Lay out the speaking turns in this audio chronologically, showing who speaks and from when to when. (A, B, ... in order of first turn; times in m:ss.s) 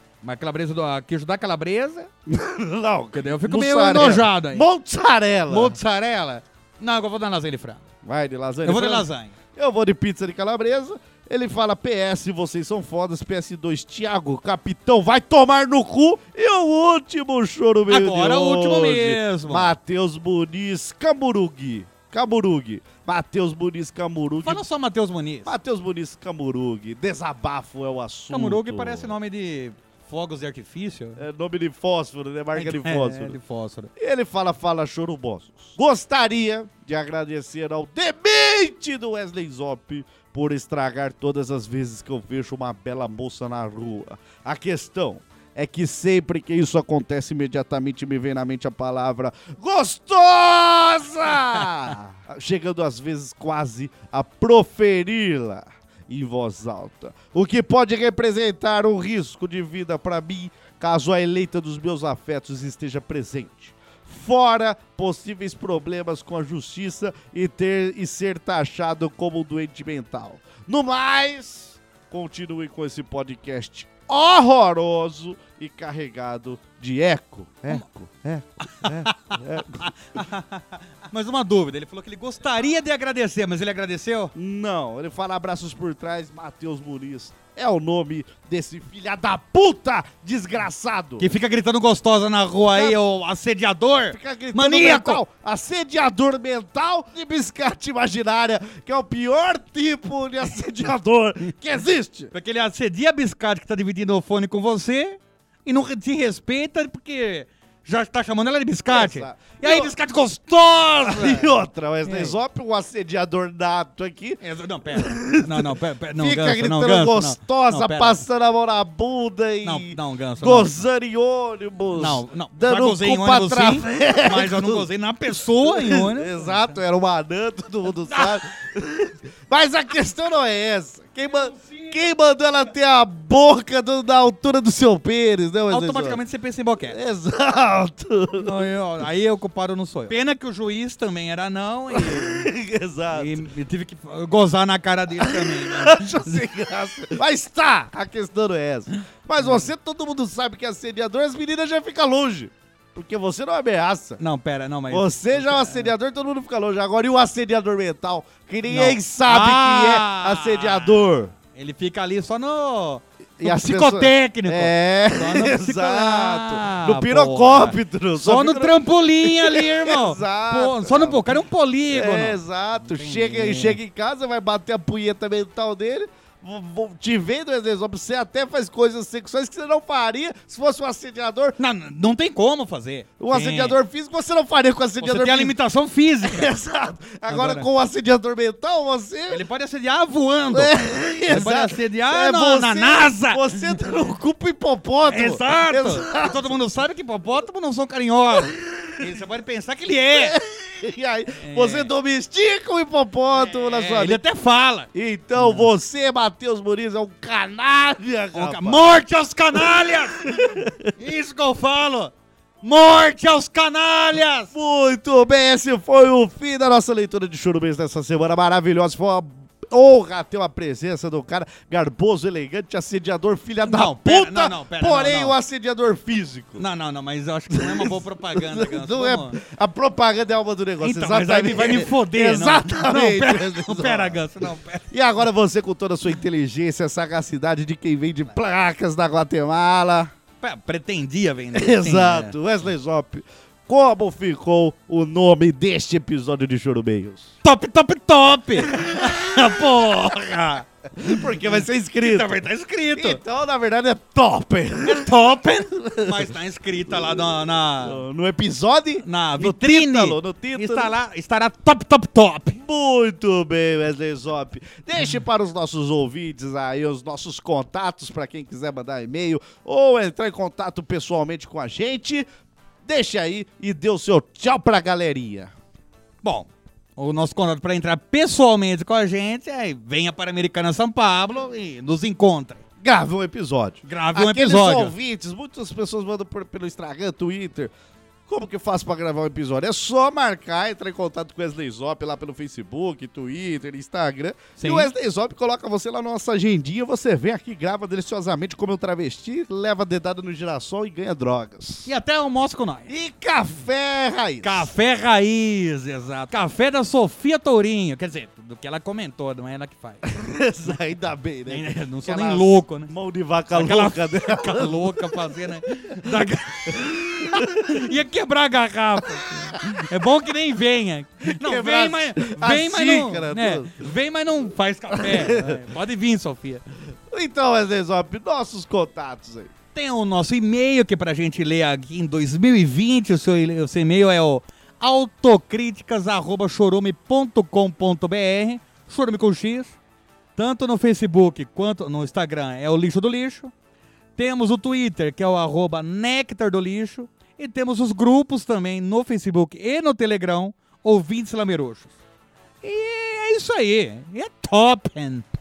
0:00.2-0:02.1 A
0:02.3-0:05.8 B
0:03.1-0:04.6 A
0:05.5-0:07.8 A
0:08.0-0:24.6 B
0:08.6-0:09.3 A
0:17.9-0:19.7 A
0:24.4-0:25.6 A
0:25.4-0:29.2 B
0:28.3-0:31.2 A
0:31.2-0:33.4 B
0:32.6-0:33.9 A
0:34.0-1:20.2 B
1:18.7-1:24.3 A
1:24.3-1:31.3 B
1:31.2-1:35.2 A
1:32.7-1:33.0 B
1:34.1-1:42.3 B
1:42.3-1:52.3 A
1:48.9-1:49.9 B
1:51.0-1:54.4 B
1:54.4-1:58.2 A
1:54.9-2:04.9 B
1:59.6-2:00.8 A
2:02.0-2:06.7 A
2:05.6-2:16.2 B
2:11.3-2:11.9 A
2:15.7-2:17.0 A
2:16.9-2:18.5 B
2:18.4-2:22.5 A
2:21.9-2:23.4 B
2:23.1-2:26.4 A
2:25.2-2:34.2 B
2:29.4-2:29.7 A
2:34.2-2:35.9 A
2:34.9-2:41.3 B
2:38.7-2:53.8 A
2:43.4-2:51.3 B
2:51.9-3:01.6 B
3:01.6-3:03.8 A
3:03.2-3:05.6 B
3:05.0-3:06.5 A
3:06.2-3:09.4 B
3:07.3-3:07.7 A
3:09.3-3:13.9 A
3:10.5-3:16.6 B
3:15.0-3:20.4 A
3:20.1-3:24.2 B
3:21.4-3:21.9 A
3:23.3-3:25.7 A
3:24.9-3:28.8 B
3:28.3-3:34.5 A
3:29.5-3:30.9 B
3:34.5-3:46.6 B
3:43.7-3:45.4 A
3:46.6-3:49.4 A
3:47.5-3:54.2 B
3:50.8-3:54.9 A
3:54.9-4:00.1 B
4:00.4-4:02.4 A
4:01.5-4:07.3 B
4:07.4-4:13.2 A
4:08.6-4:09.5 B
4:11.0-4:12.4 B
4:12.9-4:15.2 B
4:14.8-4:18.0 A
4:15.8-4:16.3 B
4:16.9-4:20.9 B
4:19.0-4:22.6 A
4:22.6-4:32.3 B
4:32.8-4:35.5 B
4:36.2-4:42.6 A
4:42.8-4:47.7 B
4:43.8-4:44.9 A
4:48.3-5:01.9 B
4:54.6-4:54.9 A
5:01.9-5:02.9 A
5:02.9-5:04.7 B
5:04.4-5:10.1 A
5:10.0-5:15.2 B
5:11.5-5:12.9 A
5:13.5-5:26.6 A
5:16.0-5:17.8 B
5:21.3-5:23.9 B
5:24.9-5:25.6 B
5:27.1-5:29.5 B
5:29.7-5:39.8 A
5:40.4-5:43.5 A
5:44.2-5:51.9 A
5:52.6-5:55.3 A